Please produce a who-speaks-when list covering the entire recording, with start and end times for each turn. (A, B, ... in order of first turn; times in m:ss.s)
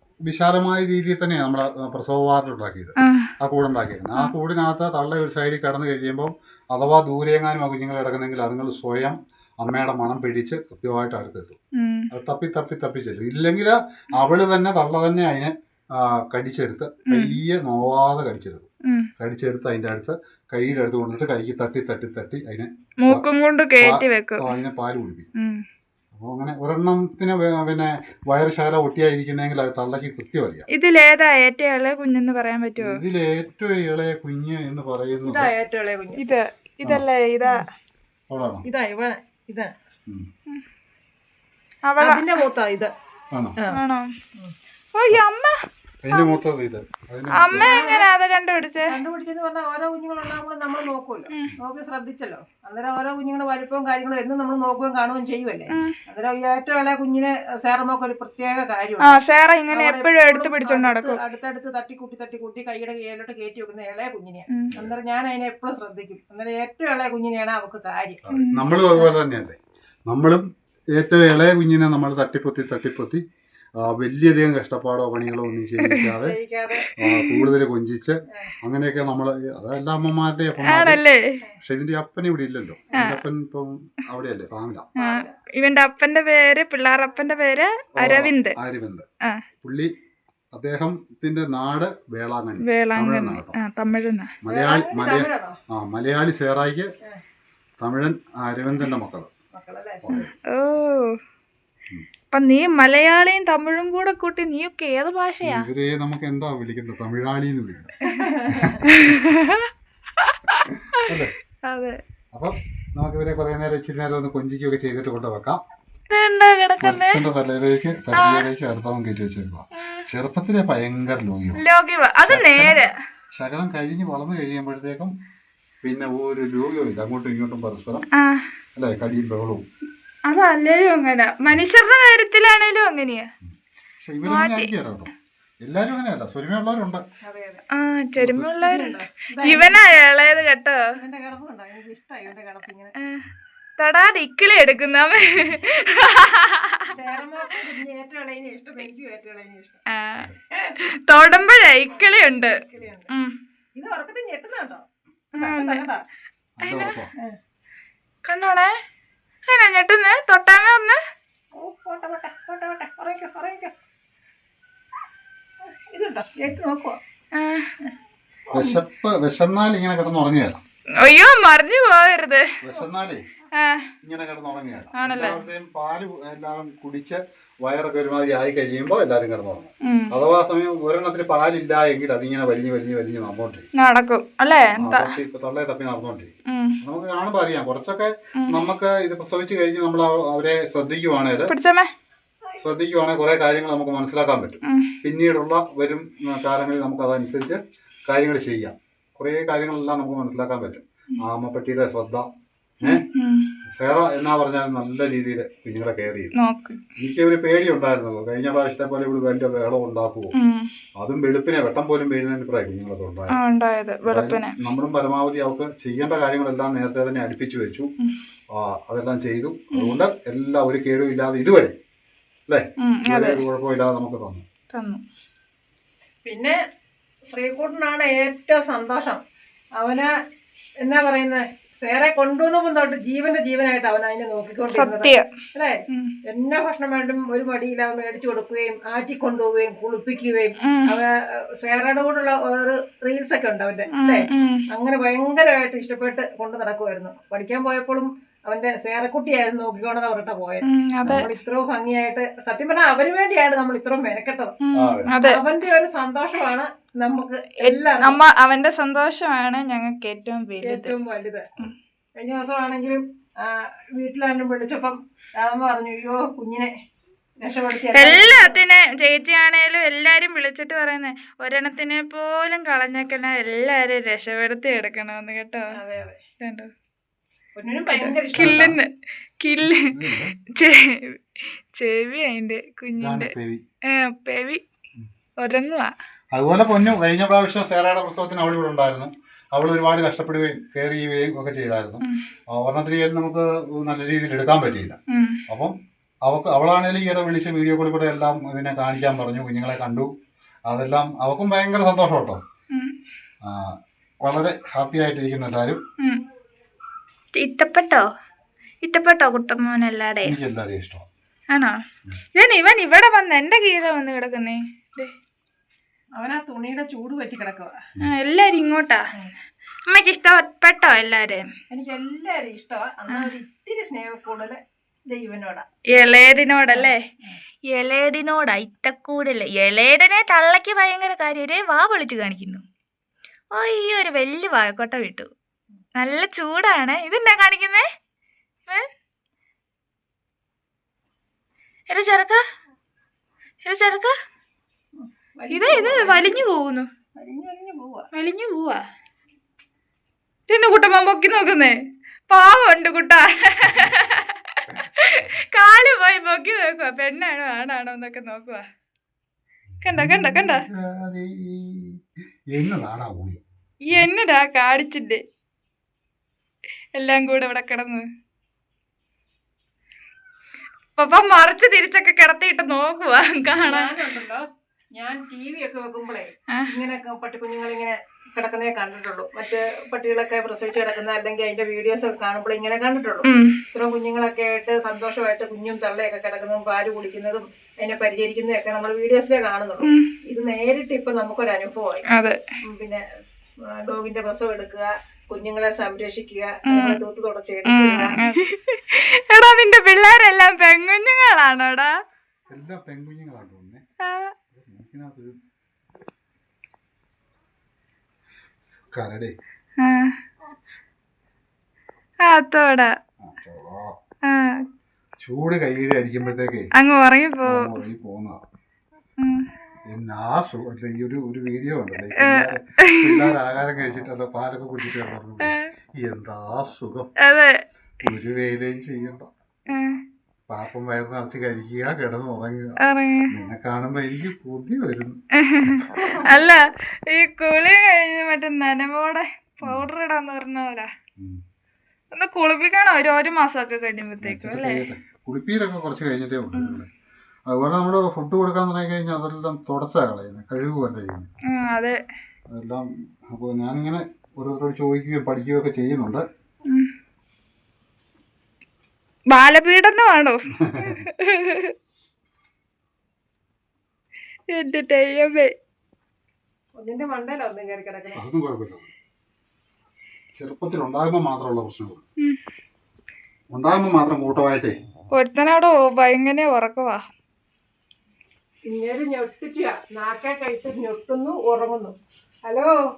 0:00.3-0:11.6 A
0:03.0-0:03.3 B
0:11.8-0:12.1 B
0:12.1-0:18.7 A
0:17.1-0:17.4 B
0:19.2-0:23.2 A
0:23.0-0:24.5 B
0:23.8-0:25.3 A
0:26.1-0:30.7 A
0:30.7-0:33.0 B
0:32.8-0:35.5 A
0:35.2-0:36.2 C
0:36.2-0:37.6 B
0:38.3-0:38.6 A
0:38.6-0:39.7 C
0:41.9-0:42.4 B
0:42.0-0:42.9 C
0:43.7-0:44.1 B
0:44.9-0:45.5 B
0:46.0-0:47.7 A
0:46.1-0:46.4 B
0:47.4-0:49.0 B
0:47.6-0:48.1 C
0:48.8-0:59.2 C
0:55.7-0:56.0 B
0:59.0-1:01.2 B
0:59.7-1:08.2 C
1:08.2-1:09.6 A
1:08.3-1:09.1 B
1:10.1-1:10.4 A
1:11.0-1:13.2 A
1:13.8-1:16.4 A
1:15.8-1:16.1 B
1:16.2-1:16.9 C
1:17.0-1:21.0 A
1:17.0-1:17.5 B
1:20.6-1:21.4 B
1:21.6-1:24.9 A
1:23.0-1:23.2 B
1:25.0-1:25.3 C
1:25.0-1:28.6 B
1:28.0-1:29.0 A
1:29.6-1:29.9 A
1:30.5-1:33.6 A
1:32.6-1:34.3 B
1:34.4-1:36.9 A
1:34.5-1:35.6 C
1:37.8-1:39.3 A
1:39.5-1:40.0 C
1:40.0-1:40.3 A
1:40.1-1:41.2 B
1:42.3-1:45.7 B
1:45.4-1:47.9 A
1:48.1-1:48.8 C
1:48.5-1:49.2 A
1:48.8-1:49.7 B
1:50.2-1:50.6 B
1:51.0-1:51.3 A
1:51.7-1:52.0 B
1:52.3-1:55.6 A
1:56.1-1:57.2 B
1:56.8-2:01.6 A
1:58.1-1:58.4 B
2:01.6-2:02.9 B
2:02.2-2:02.8 A
2:03.3-2:05.1 A
2:05.8-2:08.1 A
2:08.2-2:08.4 B
2:08.8-2:09.6 A
2:10.3-2:13.3 B
2:14.0-2:15.1 A
2:14.2-2:14.7 B
2:15.6-2:17.0 A
2:17.2-2:17.6 C
2:17.7-2:20.8 B
2:18.2-2:18.5 A
2:18.6-2:20.0 C
2:20.9-2:22.9 C
2:23.0-2:23.3 B
2:23.8-2:26.9 B
2:25.1-2:25.6 A
2:26.9-2:29.8 C
2:29.9-2:30.3 B
2:30.9-2:32.6 B
2:31.9-2:33.1 C
2:33.1-2:33.3 B
2:33.8-2:36.0 C
2:35.4-2:35.8 B
2:36.6-2:37.1 A
2:36.6-2:37.0 B
2:38.3-2:38.7 B
2:39.5-2:41.0 B
2:41.6-2:43.7 C
2:45.9-2:47.0 C
2:47.4-2:47.7 B
2:48.5-2:50.6 A
2:51.0-2:52.4 B
2:52.6-2:53.2 A
2:53.6-2:53.9 B
2:54.0-3:03.7 A
2:55.0-2:55.4 B
2:59.8-3:00.1 B
3:03.8-3:05.1 B
3:04.8-3:11.5 A
3:06.5-3:06.8 B
3:11.5-3:11.9 B
3:12.6-3:22.3 A
3:14.7-3:15.0 B
3:22.8-3:23.5 B
3:23.7-3:26.3 A
3:26.4-3:26.8 B
3:27.0-3:30.3 A
3:30.4-3:30.7 B
3:31.0-3:33.4 A
3:33.3-3:34.6 B
3:34.1-3:37.9 A
3:38.5-3:41.8 A
3:39.7-3:40.0 B
3:42.5-3:44.4 A
3:42.8-3:43.4 B
3:44.7-3:45.0 B
3:46.2-3:46.6 C
3:47.3-3:49.2 C
3:49.8-3:50.1 C
3:50.8-3:55.7 C
3:54.7-3:55.2 B
3:56.3-4:14.6 C
4:00.6-4:01.0 B
4:03.9-4:04.6 B
4:10.7-4:11.3 B
4:14.6-4:15.4 B
4:14.8-4:15.1 A
4:15.2-4:18.2 C
4:17.6-4:20.9 B
4:20.6-4:21.4 C
4:22.2-4:26.7 C
4:27.4-4:28.6 C
4:27.9-4:35.7 B
4:35.8-4:36.2 C
4:36.4-4:36.7 B
4:37.6-4:38.8 C
4:37.9-4:39.9 B
4:38.3-4:38.8 A
4:39.9-4:40.4 A
4:40.5-4:43.3 B
4:43.0-4:43.6 A
4:43.9-4:44.6 B
4:45.4-4:45.9 B
4:46.3-5:00.1 A
4:55.1-4:55.4 B
5:00.7-5:02.4 A
5:03.4-5:05.8 A
5:07.4-5:08.0 B
5:08.8-5:10.4 B
5:10.2-5:11.1 A
5:12.4-5:15.1 B
5:16.2-5:17.7 C
5:18.0-5:19.0 B
5:19.9-5:21.5 B
5:21.7-5:25.6 C
5:25.9-5:27.0 B
5:26.7-5:27.4 C
5:27.7-5:32.6 B
5:33.5-5:35.3 B
5:36.0-5:37.9 B
5:41.9-5:42.4 B
5:43.6-5:44.1 B
5:45.0-5:46.4 C
5:45.5-5:46.9 B
5:47.2-5:48.1 C
5:48.1-5:48.8 B
5:50.5-5:51.8 B
5:52.3-5:58.6 B
5:59.8-6:00.6 B
5:59.9-6:02.0 A
6:02.5-6:04.1 A
6:03.9-6:05.2 B
6:06.9-6:08.0 B
6:11.0-6:14.0 B
6:13.6-6:14.4 C
6:15.0-6:32.0 C
6:23.2-6:23.6 B
6:29.8-6:30.1 B
6:32.1-6:32.4 B
6:32.7-6:33.0 C
6:33.8-6:38.3 C
6:36.7-6:37.0 B
6:37.6-6:41.9 B
6:42.5-6:43.8 A
6:44.0-6:44.3 B
6:44.5-6:45.4 A
6:48.9-6:49.3 A
6:49.8-6:50.1 B
6:52.2-6:52.9 B
6:53.2-6:53.9 A
6:54.3-6:54.6 B
6:55.2-6:56.7 A
6:56.8-6:57.7 B
6:57.4-6:58.4 A
6:59.9-7:07.1 A
7:02.2-7:03.3 B
7:05.4-7:05.7 B
7:07.2-7:07.6 B
7:08.0-7:09.3 A
7:09.7-7:10.0 B
7:10.5-7:12.8 A
7:12.8-7:13.3 B
7:13.3-7:15.8 A
7:15.4-7:20.9 B
7:16.0-7:16.2 C
7:22.1-7:24.8 B
7:24.2-7:26.9 A
7:27.5-7:31.3 A
7:31.5-7:32.0 B
7:32.5-7:36.2 A
7:39.3-7:41.7 B
7:40.6-7:41.1 A
7:44.5-7:45.5 B
7:46.8-7:48.2 C
7:48.1-7:48.9 A
7:50.4-7:52.0 A
7:53.5-7:54.7 A
7:55.1-7:57.0 B
7:58.7-8:02.8 C